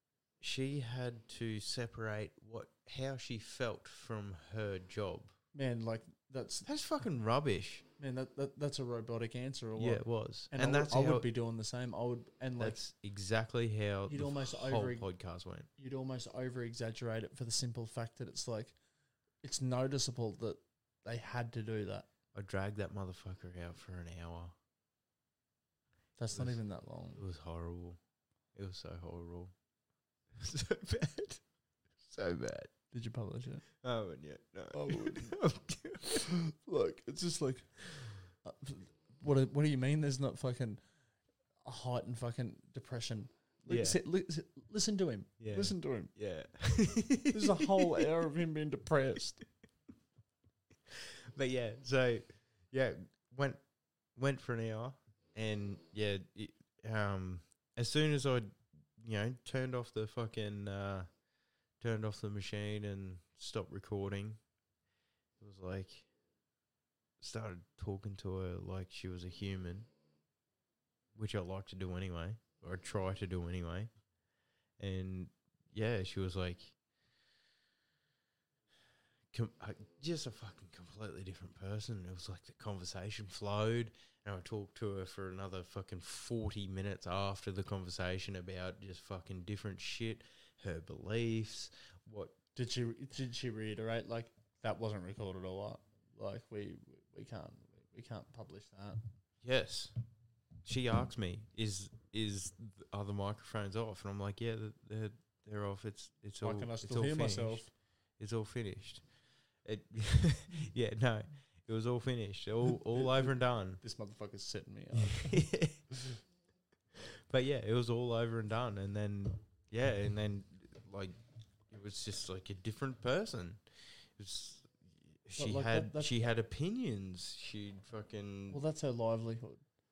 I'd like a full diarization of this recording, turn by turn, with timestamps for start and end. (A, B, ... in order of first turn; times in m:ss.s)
0:00.4-0:05.3 A
0:05.5-0:06.7 B
0:06.6-0:07.8 A
0:08.0-0:12.8 B
0:09.8-0:11.3 A
0:12.6-0:15.7 A
0:14.1-0:15.0 B
0:15.8-0:18.8 B
0:19.4-0:22.1 B
0:22.3-0:24.6 A
0:26.2-0:27.2 B
0:27.2-0:28.0 A
0:28.5-0:29.5 A
0:30.4-0:31.4 A
0:32.0-0:32.7 A
0:32.9-0:33.6 B
0:33.8-0:36.3 A
0:34.7-0:35.4 B
0:36.1-0:37.8 B
0:38.4-0:40.8 B
0:41.6-0:46.1 B
0:43.7-0:44.0 A
0:45.4-0:48.0 A
0:47.3-0:49.4 B
0:50.9-0:53.6 A
0:54.2-1:01.1 A
1:01.8-1:04.4 A
1:05.4-1:06.1 A
1:07.2-1:09.9 A
1:11.1-1:13.9 A
1:14.8-1:16.7 A
1:19.3-1:32.4 A
1:32.5-1:39.0 B
1:39.4-1:39.9 A
1:40.6-1:47.6 A
1:46.4-1:47.7 B
1:48.2-1:49.0 A
1:49.6-1:53.8 A
1:53.0-1:55.4 B
1:55.0-1:55.8 A
1:57.2-2:01.1 A
2:01.7-2:03.6 A
2:04.2-2:08.6 A
2:05.4-2:06.1 B
2:08.5-2:09.6 B